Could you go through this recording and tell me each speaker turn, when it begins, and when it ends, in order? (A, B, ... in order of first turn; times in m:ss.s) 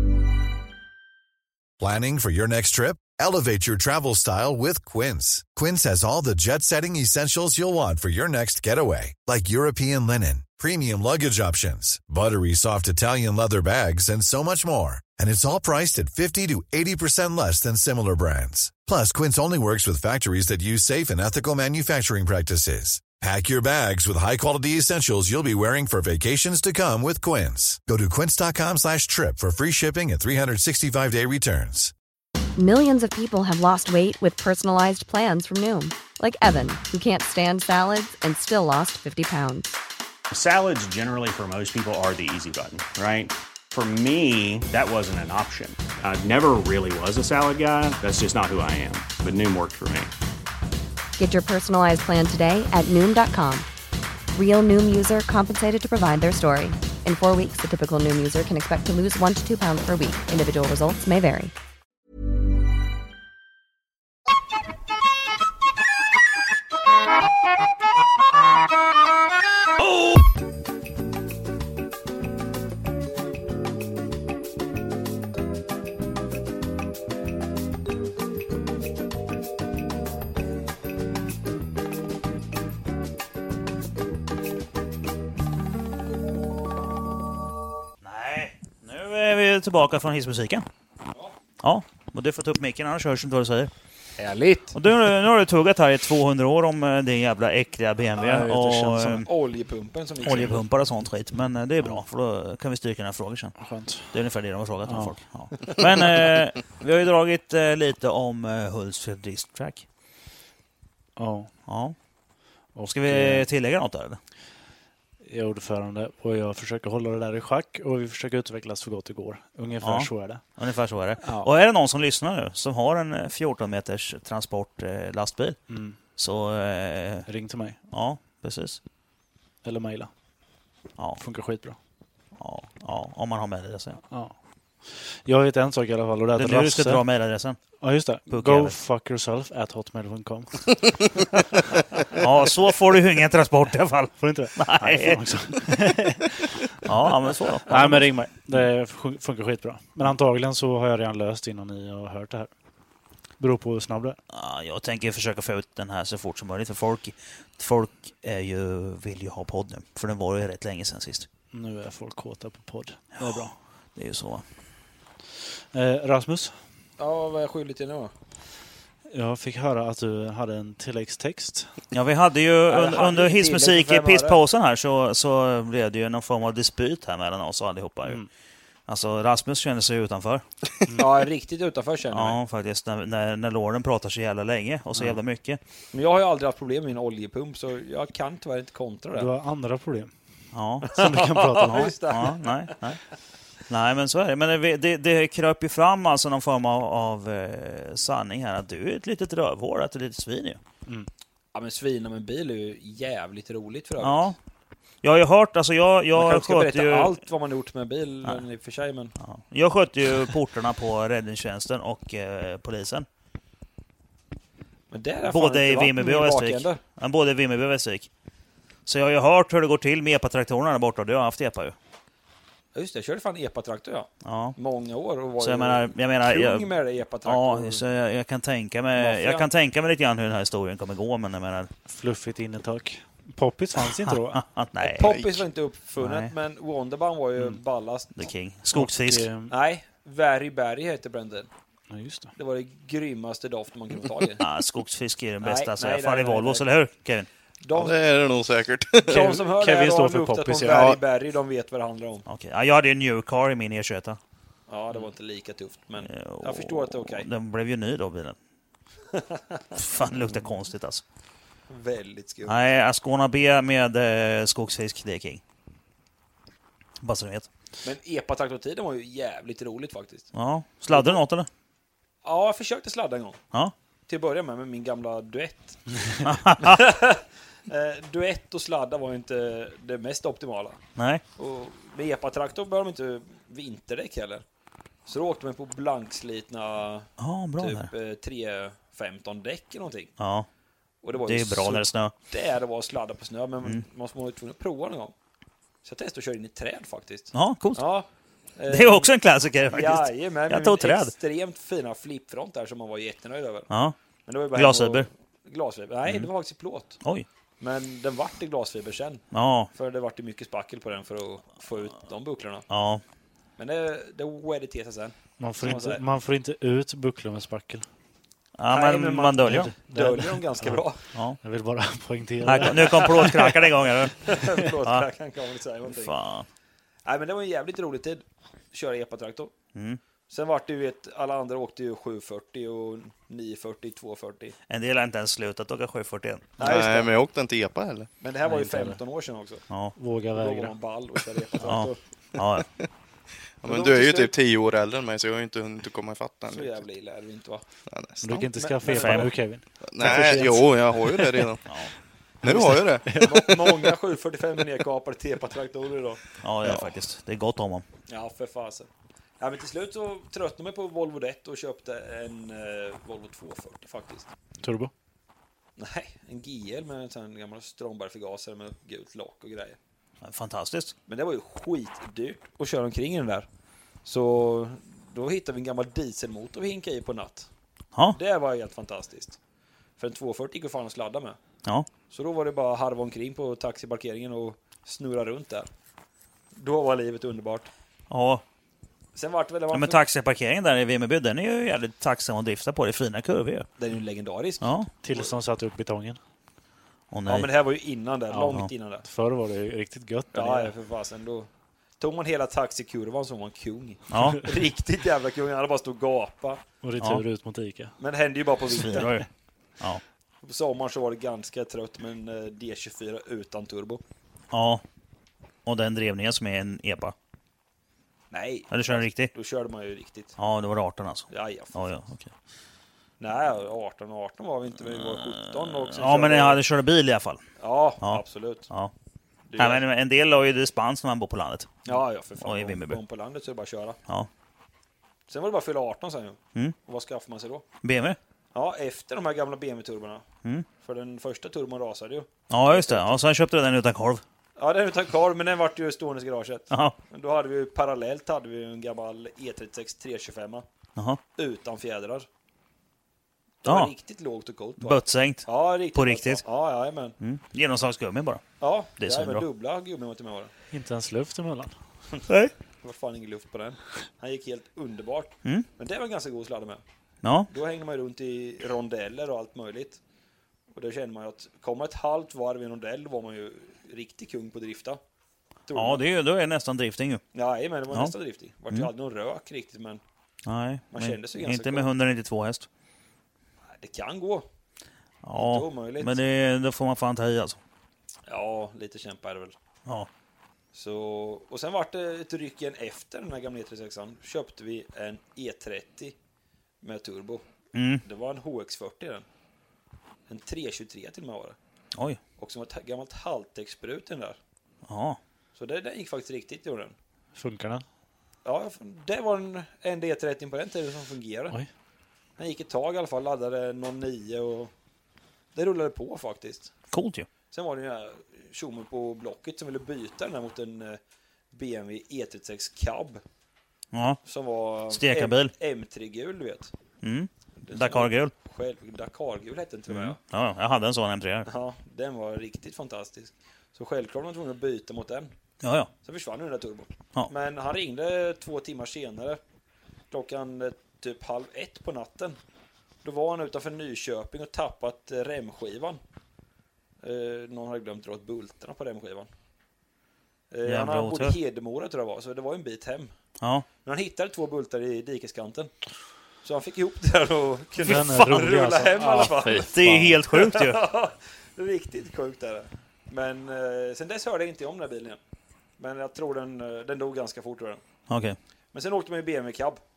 0:01.8-0:31.9 A
0:32.6-0:39.7 B
0:40.3-0:50.1 C
0:51.2-0:53.7 B
0:54.3-1:01.5 B
1:28.0-1:30.7 D
1:31.6-1:33.7 D
1:34.2-1:34.8 E
1:34.7-1:39.3 D
1:38.2-1:39.2 F
1:39.2-1:40.6 E
1:40.2-1:43.6 D
1:43.6-1:44.2 F
1:44.1-1:49.9 D
1:44.8-1:45.6 F
1:51.2-1:51.5 F
1:51.7-1:51.9 D
1:52.7-1:53.5 F
1:52.9-1:54.2 D
1:55.2-2:00.4 F
1:59.8-2:05.6 D
2:01.2-2:01.5 F
2:05.7-2:06.0 F
2:06.2-2:07.3 D
2:07.3-2:07.8 F
2:07.9-2:08.8 D
2:09.6-2:10.1 F
2:11.2-2:11.8 F
2:12.4-2:14.0 D
2:14.1-2:14.3 F
2:14.8-2:17.0 F
2:16.4-2:17.6 D
2:17.8-2:21.0 F
2:18.3-2:18.8 D
2:22.1-2:25.4 D
2:24.2-2:32.5 F
2:26.8-2:28.1 D
2:33.4-2:34.2 F
2:34.3-2:41.3 D
2:41.5-2:43.5 F
2:43.2-2:44.4 D
2:45.7-2:46.6 F
2:47.0-2:48.1 E
2:49.1-2:51.7 F
2:51.9-2:58.2 D
2:52.7-2:54.4 E
2:58.9-3:00.4 D
3:01.0-3:02.4 E
3:02.1-3:05.6 D
3:05.9-3:09.3 E
3:09.1-3:10.1 F
3:10.5-3:10.9 D
3:10.9-3:12.8 E
3:10.9-3:11.9 F
3:11.6-3:13.0 D
3:13.7-3:20.6 D
3:21.5-3:24.3 E
3:24.0-3:24.4 D
3:25.0-3:27.1 D
3:26.1-3:29.1 E
3:29.2-3:33.1 D
3:34.9-3:36.8 E
3:35.3-3:38.1 D
3:38.9-3:41.8 D
3:42.8-3:47.8 E
3:44.2-3:44.6 D
3:45.4-3:46.7 D
3:47.2-3:51.7 D
3:49.0-3:49.5 E
3:51.9-3:54.4 F
3:54.1-3:55.2 D
3:54.8-3:58.1 E
3:56.0-3:56.3 D
3:58.1-3:59.3 D
3:58.7-3:59.5 F
3:59.5-4:01.5 E
4:01.9-4:02.3 F
4:02.4-4:04.4 E
4:04.4-4:07.3 D
4:05.4-4:06.7 E
4:07.6-4:08.0 E
4:07.7-4:09.3 G
4:09.0-4:12.2 E
4:09.1-4:11.0 F
4:12.3-4:14.2 D
4:14.7-4:17.3 E
4:16.0-4:18.4 D
4:19.1-4:19.7 E
4:19.8-4:21.0 D
4:21.7-4:22.7 E
4:22.5-4:25.4 D
4:27.0-4:27.5 D
4:27.8-4:30.3 E
4:30.3-4:31.5 D
4:30.9-4:31.2 E
4:32.2-4:33.4 E
4:34.1-4:35.8 E
4:36.2-4:36.9 D
4:36.6-4:40.8 E
4:41.0-4:41.2 D
4:41.4-4:44.4 E
4:45.1-4:50.1 E
4:47.2-4:47.9 D
4:50.2-4:50.5 D
4:51.0-4:55.1 E
4:51.2-4:52.1 D
4:55.8-4:59.1 E
4:57.3-4:57.8 D
4:58.7-5:01.1 D
4:59.7-5:03.7 E
5:03.7-5:04.0 D
5:04.2-5:07.0 E
5:04.5-5:05.1 D
5:07.0-5:07.2 D
5:07.6-5:12.7 E
5:09.3-5:09.7 D
5:12.7-5:13.0 D
5:13.6-5:16.0 E
5:15.4-5:17.8 F
5:18.6-5:19.7 D
5:18.7-5:21.0 E
5:19.5-5:20.8 F
5:21.4-5:23.5 F
5:22.4-5:24.3 D
5:22.7-5:23.6 E
5:24.2-5:26.1 E
5:25.9-5:26.5 D
5:27.1-5:29.5 E
5:29.7-5:30.0 D
5:30.3-5:34.5 E
5:34.7-5:36.6 D
5:36.6-5:37.1 E
5:36.6-5:38.1 G
5:38.2-5:39.6 E
5:38.5-5:39.0 F
5:39.7-5:39.9 D
5:40.0-5:40.8 F
5:40.4-5:42.0 E
5:41.6-5:42.7 D
5:43.6-5:46.8 G
5:43.7-5:44.3 E
5:46.5-5:47.6 E
5:47.9-5:48.4 G
5:48.2-5:51.5 F
5:48.3-5:49.3 E
5:48.9-5:49.3 D
5:49.9-5:51.6 G
5:51.7-5:51.9 D
5:52.4-5:53.1 G
5:52.5-5:54.0 F
5:52.6-5:56.2 E
5:56.4-5:57.9 D
5:58.1-5:58.9 E
5:59.4-6:04.3 E
6:04.6-6:04.9 F
6:05.8-6:09.8 E
6:10.2-6:10.9 D
6:11.1-6:13.5 E
6:14.0-6:17.5 E
6:18.1-6:19.4 E
6:20.0-6:21.4 E
6:22.1-6:25.7 E
6:26.6-6:27.7 E
6:28.1-6:28.4 D
6:29.2-6:30.0 E
6:29.7-6:33.7 D
6:33.8-6:35.3 E
6:34.6-6:34.9 D
6:35.0-6:36.2 F
6:37.1-6:37.5 D
6:37.2-6:39.0 E
6:38.3-6:40.7 F
6:40.3-6:41.5 E
6:42.0-6:46.6 E
6:44.1-6:44.4 D
6:46.8-6:47.9 F
6:48.0-6:49.1 E
6:48.7-6:49.2 D
6:50.4-6:54.0 E
6:54.5-6:54.8 D
6:55.7-6:57.2 D
6:58.3-7:00.4 E
6:58.7-6:59.3 D
7:00.4-7:02.3 D
7:01.3-7:01.9 E
7:03.2-7:06.6 E
7:04.8-7:07.4 D
7:07.6-7:08.7 E
7:08.0-7:08.9 D
7:09.5-7:09.8 E
7:09.6-7:11.8 D
7:11.9-7:14.0 E
7:12.4-7:13.0 D
7:15.3-7:17.6 E
7:17.8-7:18.2 D
7:18.5-7:20.2 E
7:20.8-7:23.2 E
7:22.5-7:24.2 D
7:24.6-7:30.6 E
7:26.7-7:27.0 D
7:31.0-7:31.2 D
7:31.4-7:32.3 E
7:33.6-7:37.2 E
7:33.6-7:33.9 D
7:34.8-7:36.4 D
7:37.2-7:38.4 D
7:38.6-7:40.5 E
7:39.0-7:39.5 D
7:40.7-7:41.7 F
7:42.8-7:46.8 E
7:47.2-7:47.5 D
7:47.5-7:50.0 E
7:50.7-7:55.0 E
7:55.7-7:56.0 E
7:55.7-7:57.2 D
7:57.3-8:00.0 E
8:00.5-8:02.7 D
8:00.9-8:01.9 E
8:03.7-8:04.5 E
8:05.2-8:07.6 D
8:05.3-8:06.2 E
8:08.3-8:09.6 E
8:10.7-8:16.2 E
8:16.8-8:17.4 E
8:17.7-8:18.0 D
8:18.0-8:19.2 E
8:20.3-8:21.6 E
8:22.4-8:24.4 E
8:24.9-8:25.2 D
8:25.5-8:27.0 E
8:27.4-8:27.8 F
8:28.4-8:31.6 E
8:32.4-8:34.7 E
8:35.5-8:36.7 E
8:36.9-8:37.3 D
8:37.5-8:41.0 E
8:41.5-8:43.2 E
8:43.9-8:44.2 D
8:44.2-8:46.7 E
8:44.9-8:45.5 D
8:47.0-8:48.3 D
8:47.6-8:50.2 E
8:49.9-8:51.5 D
8:51.5-8:55.3 E
8:55.6-8:55.9 D
8:56.0-8:59.4 E
9:00.1-9:02.4 E
9:03.0-9:06.0 E
9:07.0-9:09.3 E
9:10.5-9:13.1 E
9:10.6-9:11.4 D
9:13.4-9:13.7 D
9:13.8-9:15.7 E
9:16.4-9:25.2 E
9:17.8-9:20.2 F
9:19.7-9:20.8 D
9:25.8-9:27.8 E
9:28.1-9:28.4 D
9:28.7-9:29.8 E